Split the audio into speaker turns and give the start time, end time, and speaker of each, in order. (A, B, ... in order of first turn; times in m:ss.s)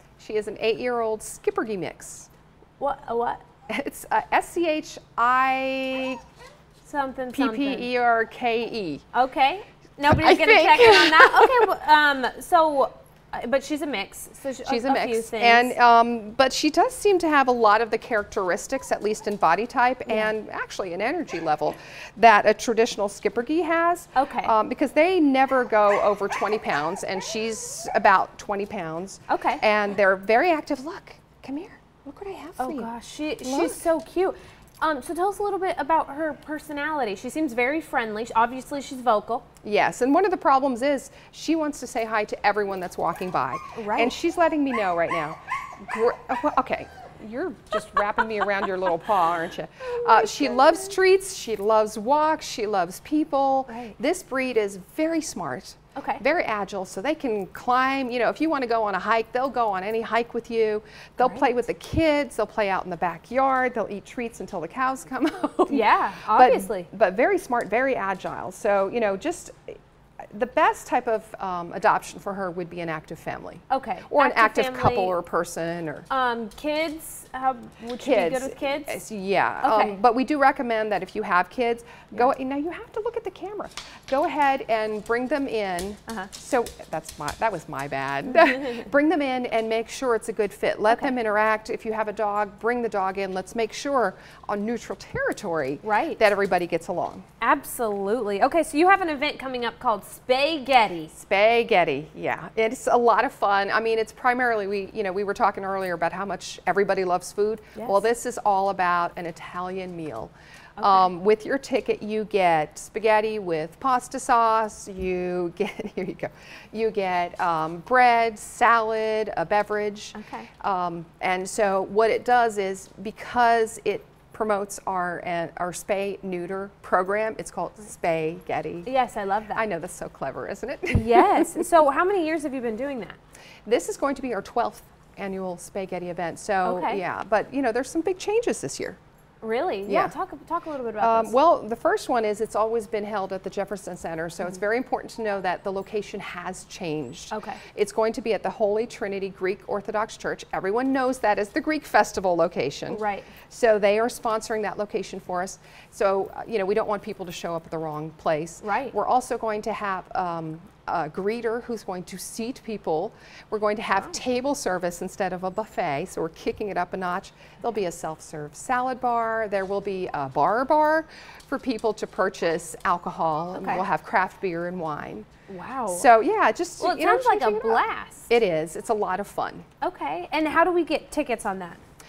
0:00.2-0:02.3 A
0:02.8-0:03.4 B
0:03.7-0:06.2 A
0:06.8-0:07.9 B
0:07.3-0:09.0 A
0:09.1-0:15.8 B
0:10.0-0:11.7 A
0:14.6-0:32.9 A
0:24.1-0:24.5 B
0:29.3-0:29.6 B
0:32.6-0:39.4 B
0:33.4-0:33.8 A
0:39.6-1:09.8 A
0:43.8-0:44.1 B
0:50.1-0:50.7 B
0:53.7-0:53.9 B
0:56.0-0:56.2 B
1:01.2-1:01.5 B
1:05.7-1:06.9 B
1:10.3-1:16.1 A
1:13.7-1:15.1 B
1:16.1-1:19.0 B
1:18.0-1:37.2 A
1:19.6-1:20.0 B
1:35.8-1:36.2 B
1:37.4-1:41.1 B
1:41.1-2:08.9 A
1:47.8-1:48.0 B
1:50.8-1:51.1 B
2:00.1-2:00.5 B
2:08.8-2:09.6 B
2:09.5-2:11.7 A
2:10.9-2:13.2 B
2:13.6-2:19.0 A
2:16.6-2:17.0 B
2:19.4-2:21.3 B
2:19.9-2:20.1 A
2:21.0-2:55.3 A
2:27.3-2:27.6 B
2:32.9-2:33.3 B
2:38.6-2:38.9 B
2:53.6-2:53.8 B
2:55.5-2:56.1 B
2:55.9-2:59.6 A
2:56.8-2:58.3 B
2:59.8-3:01.8 B